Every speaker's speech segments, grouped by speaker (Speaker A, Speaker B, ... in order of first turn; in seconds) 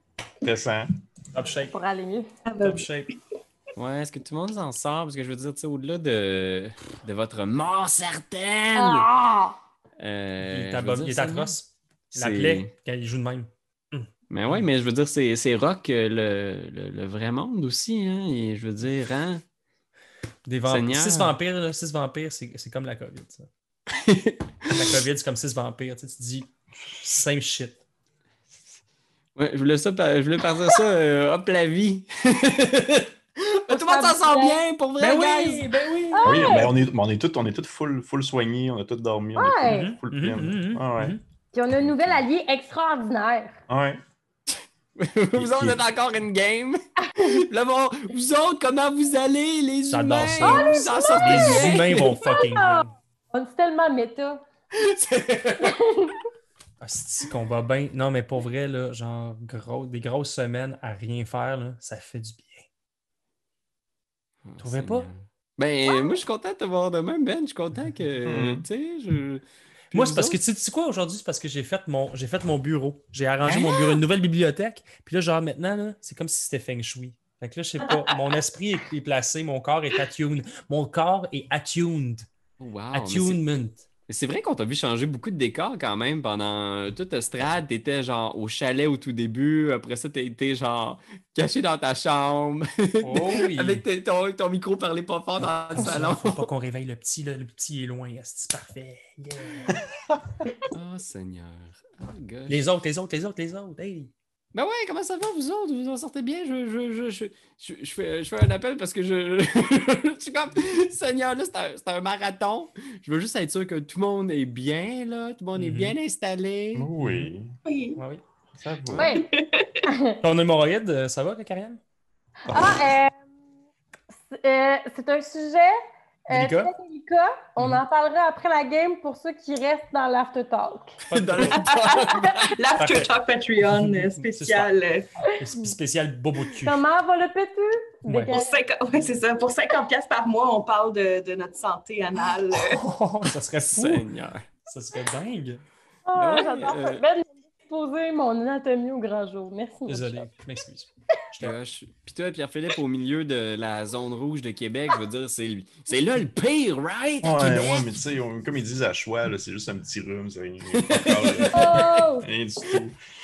Speaker A: 0.4-0.9, 36.2-41.2, 41.9-42.2, 43.7-44.0, 45.4-45.8, 68.3-68.7, 73.4-73.9, 116.8-117.5, 118.6-119.2, 122.5-122.8, 157.2-163.0
Speaker B: 1.3-1.7, 2.6-3.1, 10.4-14.6, 20.5-23.5, 24.7-27.8, 35.0-36.5, 39.7-41.2, 49.9-52.9, 56.8-62.6, 64.6-65.1, 69.9-82.3, 82.9-83.8, 93.0-93.8, 95.8-99.8, 102.5-104.1, 115.6-116.0, 117.0-117.3, 118.0-118.2, 120.2-121.8, 126.3-126.7, 131.1-131.6, 132.8-134.7, 135.3-136.8, 138.1-138.3, 142.6-144.1, 144.7-145.6, 149.9-151.6
Speaker C: 1.7-2.3, 8.8-9.6, 33.7-34.6, 36.1-36.8, 39.4-39.9, 41.5-43.6, 50.4-54.4, 55.6-56.1, 119.0-119.3, 119.9-120.2, 122.5-123.1, 124.3-131.0, 135.4-135.8, 136.6-138.6, 146.1-150.3, 161.5-162.3
Speaker D: 2.5-3.1, 77.9-78.4, 117.7-118.0, 119.1-119.9, 131.4-135.1, 138.3-142.8
Speaker E: 3.8-9.1, 10.0-11.6, 12.1-12.7, 14.3-19.4, 20.7-21.4, 23.9-25.0, 29.4-35.7, 44.5-52.2, 54.8-55.8, 64.5-70.4, 82.6-83.4, 84.1-96.5, 100.7-102.6, 104.5-116.9, 131.1-132.5, 143.6-144.5, 146.2-147.0, 151.4-157.7, 160.9-161.5